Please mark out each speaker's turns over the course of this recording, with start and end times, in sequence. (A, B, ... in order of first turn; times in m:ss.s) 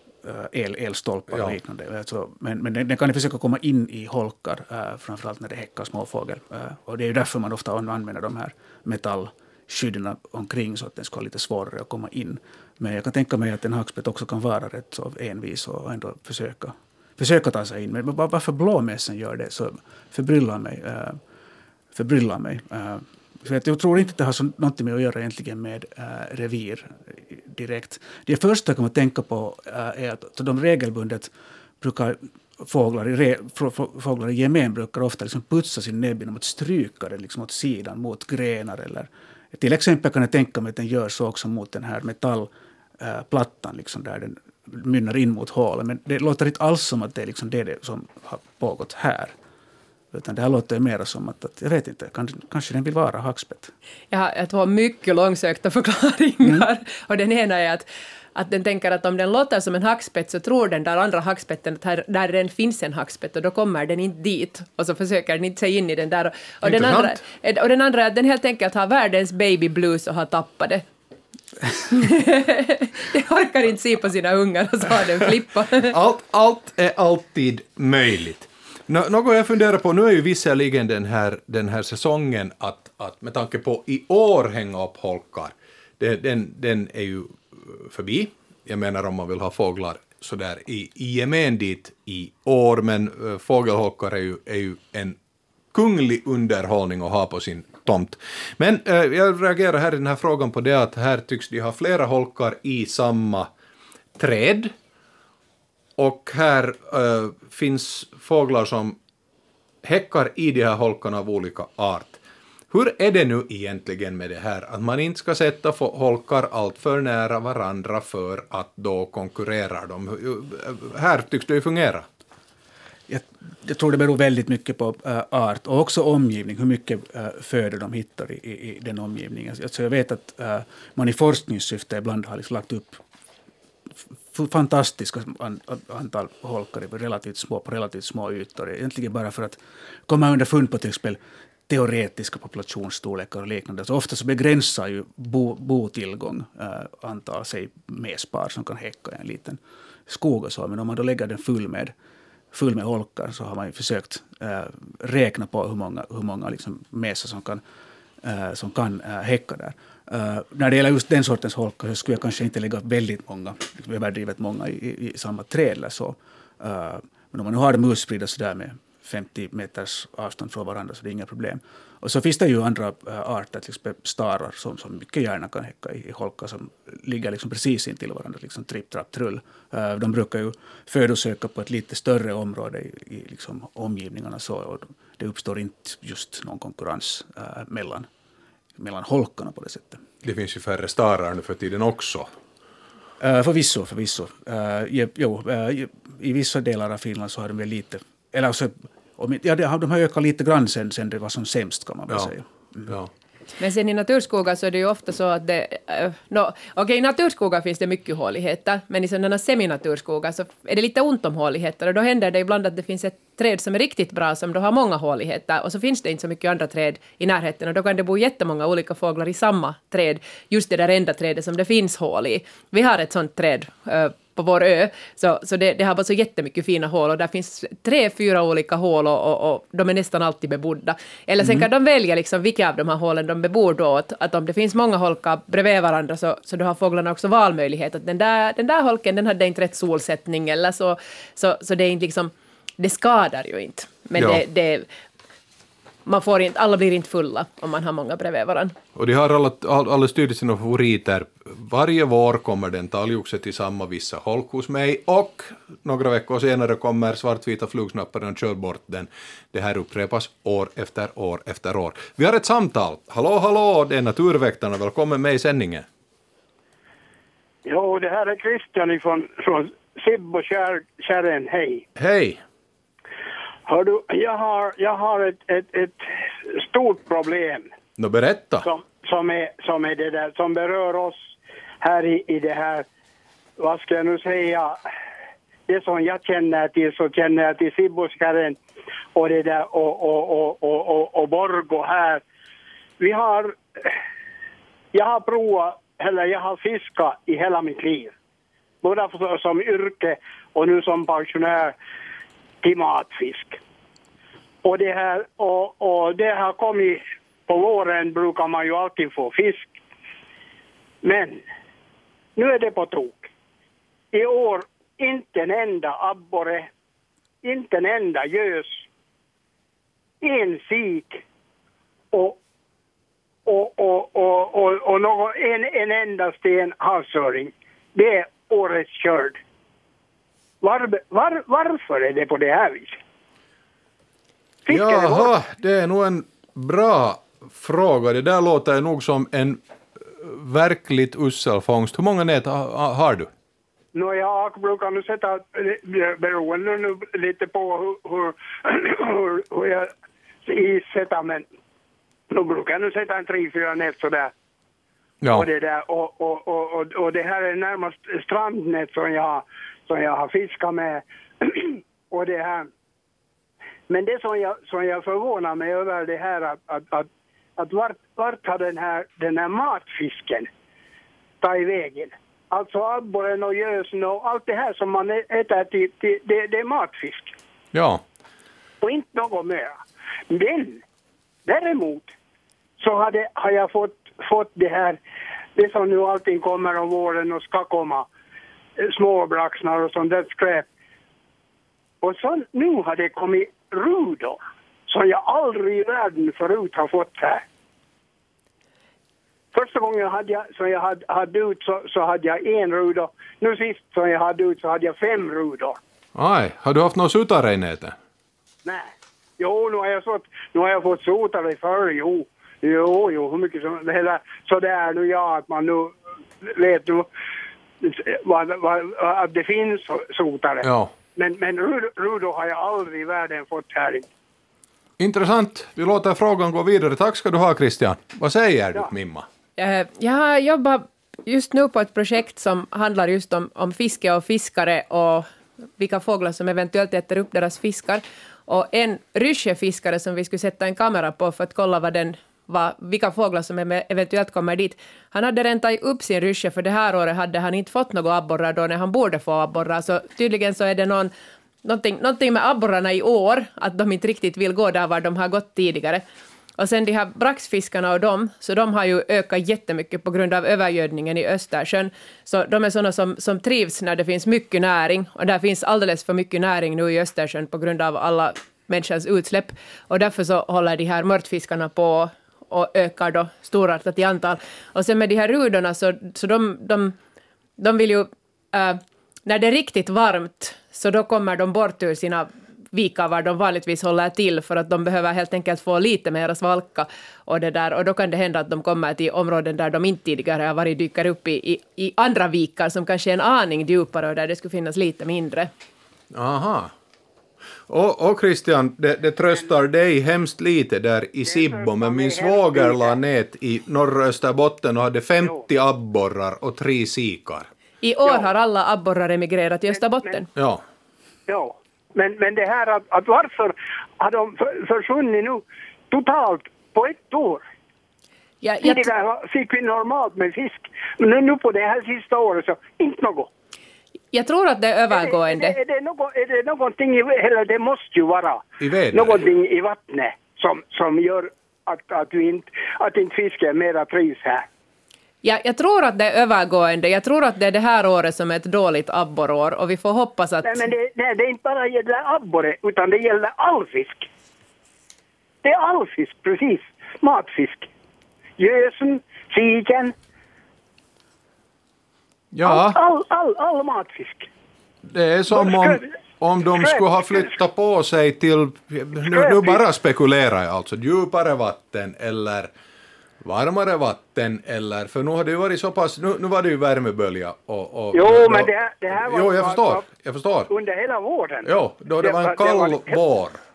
0:00.2-0:21.2 A
0:21.9-0:49.4 A
0:50.1-0:53.7 A
0:54.1-1:10.8 B
1:06.6-1:07.2 C
1:11.9-1:15.9 B
1:15.8-1:35.2 C
1:35.7-1:43.5 C
1:44.2-1:44.7 C
1:46.0-1:49.0 C
1:49.8-1:52.2 C
1:52.7-2:02.1 C
2:03.1-2:13.0 A
2:14.3-2:31.9 A
2:32.5-2:37.6 A
2:38.2-3:08.1 A
3:08.8-3:10.0 A
3:10.2-3:12.3 C
3:13.2-3:23.0 A
3:23.6-4:04.9 B
4:04.2-4:04.4 C
4:06.1-4:08.8 B
4:09.0-4:25.9 C
4:27.6-4:31.8 D
4:32.0-4:32.4 C
4:33.7-4:37.7 D
4:38.0-4:38.7 C
4:38.6-4:42.9 D
4:43.6-4:44.8 D
4:45.7-4:48.6 D
4:49.2-4:52.2 D
4:53.0-4:53.6 D
4:54.9-4:58.1 D
4:58.8-5:01.8 D
5:02.6-5:03.6 D
5:04.6-5:09.8 D
5:11.0-5:11.4 D
5:12.4-5:13.3 D
5:14.1-5:16.7 D
5:17.4-5:18.9 D
5:20.2-5:21.2 D
5:22.1-5:22.4 D
5:23.5-5:29.4 D
5:30.6-5:33.0 D
5:34.7-5:35.3 D
5:34.7-5:43.3 C
5:44.0-5:49.9 D
5:50.5-5:51.5 D
5:52.3-5:54.3 D
5:55.2-5:55.5 C
5:55.3-6:02.7 D
6:03.9-6:10.5 D
6:11.4-6:17.3 D
6:17.7-6:18.0 C
6:18.8-6:19.8 D
6:20.3-6:20.8 D
6:21.5-6:22.1 D
6:22.8-6:25.0 D
6:25.6-6:28.1 D
6:28.8-6:30.7 D
6:32.0-6:37.4 D
6:39.5-6:45.8 D
6:46.2-6:48.0 C
6:48.6-6:57.1 D
6:57.8-7:04.1 D
7:00.6-7:00.9 C
7:05.0-7:09.3 C
7:09.6-7:31.1 B
7:31.6-7:36.0 B
7:36.6-7:57.0 B
7:57.6-8:15.5 B
8:16.1-8:16.7 C
8:17.7-8:27.5 C
8:21.3-8:23.0 D
8:27.8-8:30.3 B
8:30.4-8:30.6 C
8:31.3-8:37.4 D
8:38.4-8:38.9 B
8:38.6-8:43.3 D
8:44.1-8:45.6 B
8:44.9-8:54.5 D
8:48.6-8:49.3 C
8:55.2-9:00.7 B
9:00.4-9:04.1 D
9:05.4-9:07.7 D
9:08.4-9:09.9 D
9:12.3-9:12.8 C
9:12.4-9:14.3 D
9:14.9-9:22.5 C
9:15.3-9:15.9 D
9:16.6-9:17.3 D
9:19.1-9:19.6 D
9:23.2-9:30.5 C
9:27.9-9:29.8 D
9:30.5-9:31.5 D
9:31.4-9:33.4 C
9:32.0-9:33.0 D